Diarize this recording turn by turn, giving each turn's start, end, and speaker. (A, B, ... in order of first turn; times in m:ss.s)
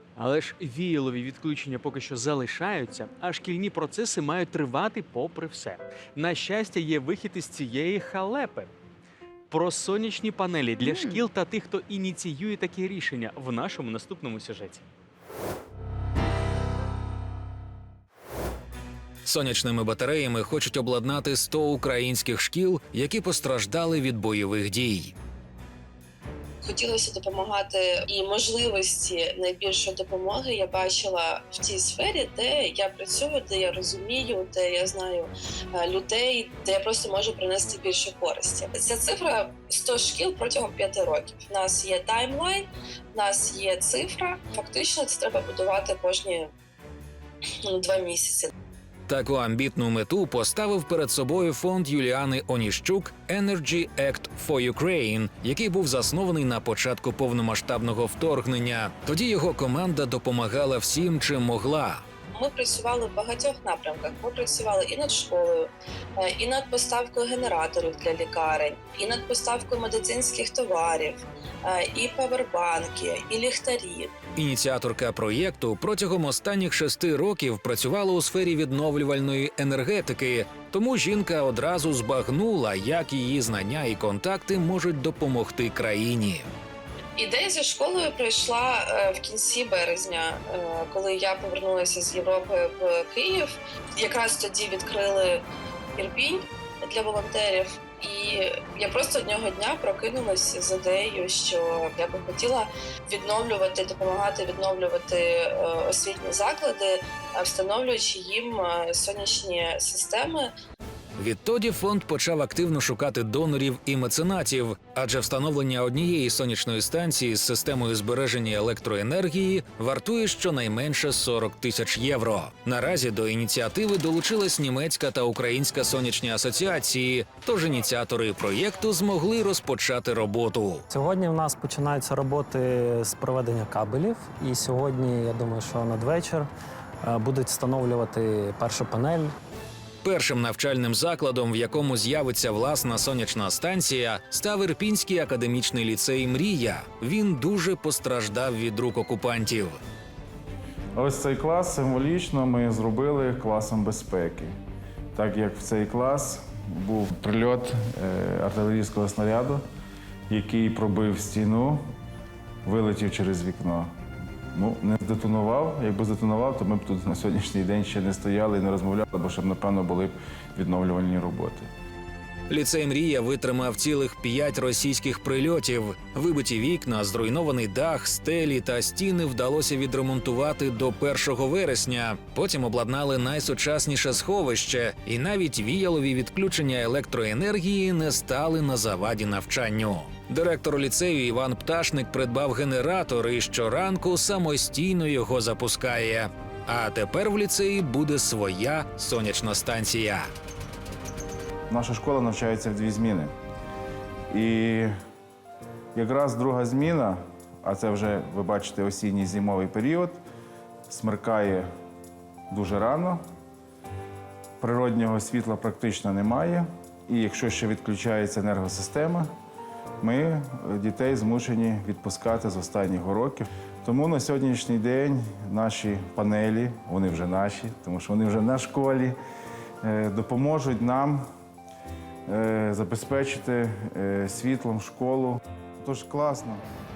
0:00.2-0:08.7 A
0:09.5-0:14.9 A
0:19.2-0:25.1 B
0:26.6-0:46.5 C
0:47.6-0:48.5 C
0:49.1-1:02.0 B
1:02.3-1:14.1 C
1:14.4-1:26.5 B
1:27.2-1:35.4 C
1:36.0-1:50.5 C
1:51.2-2:10.8 B
2:10.9-2:16.5 D
2:17.0-2:19.4 D
2:20.0-2:29.8 B
2:31.0-2:34.5 E
2:35.1-2:39.6 E
2:40.3-2:41.8 E
2:42.6-2:43.9 E
2:44.5-2:51.7 E
2:52.5-3:20.3 B
3:21.7-3:23.3 E
3:24.3-3:24.9 E
3:26.0-3:30.2 E
3:30.9-3:31.7 E
3:32.5-3:33.2 E
3:34.6-3:39.3 E
3:40.0-3:49.2 E
3:49.8-3:51.2 E
3:52.3-3:56.6 E